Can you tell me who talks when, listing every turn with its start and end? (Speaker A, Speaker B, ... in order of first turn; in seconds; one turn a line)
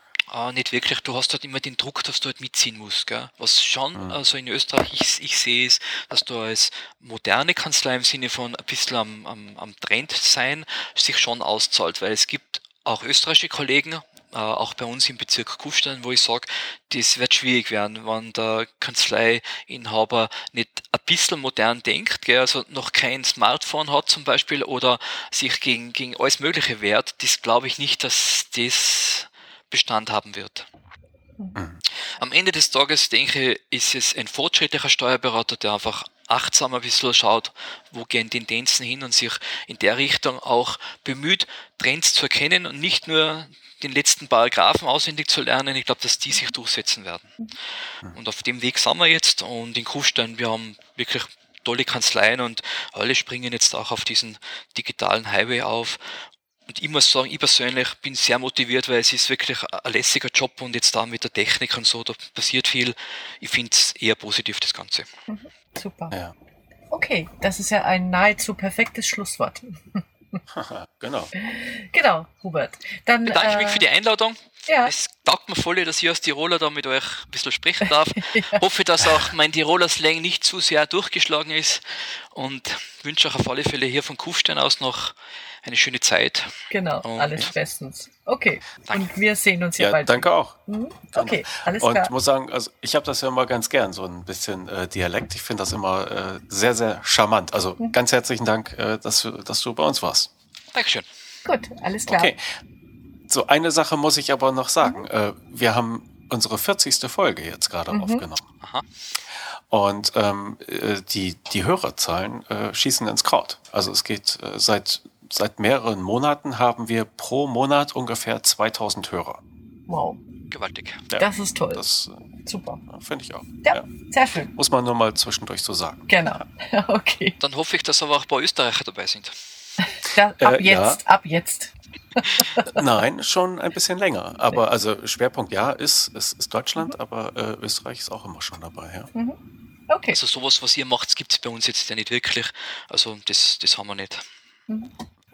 Speaker A: 0.3-30.7
Speaker B: 3.9-4.2
Speaker B: 31.6-31.8
Speaker A: 32.1-47.3
Speaker A: 48.1-65.1
Speaker C: 65.3-66.1
Speaker C: 66.9-70.4
Speaker B: 70.5-71.3
Speaker C: 71.3-73.8
Speaker A: 73.2-87.5
Speaker C: 78.2-78.6
Speaker C: 86.7-92.1
Speaker B: 89.8-90.6
Speaker B: 91.1-100.3
Speaker A: 100.7-101.0
Speaker C: 101.4-102.3
Speaker B: 102.1-102.4
Speaker B: 103.3-108.4
Speaker C: 107.9-108.2
Speaker A: 108.6-108.8
Speaker B: 109.7-119.4
Speaker C: 119.9-120.2
Speaker A: 120.5-121.1
Speaker B: 121.1-122.2
Speaker C: 121.2-121.8
Speaker C: 122.4-122.8
Speaker B: 122.9-123.8
Speaker C: 123.6-124.5
Speaker B: 124.5-126.1
Speaker C: 126.1-127.4
Speaker A: 127.4-129.3
Speaker C: 129.8-132.8
Speaker B: 130.4-131.0
Speaker B: 132.6-139.1
Speaker C: 139.9-140.2
Speaker A: 140.1-144.2
Speaker C: 144.7-144.9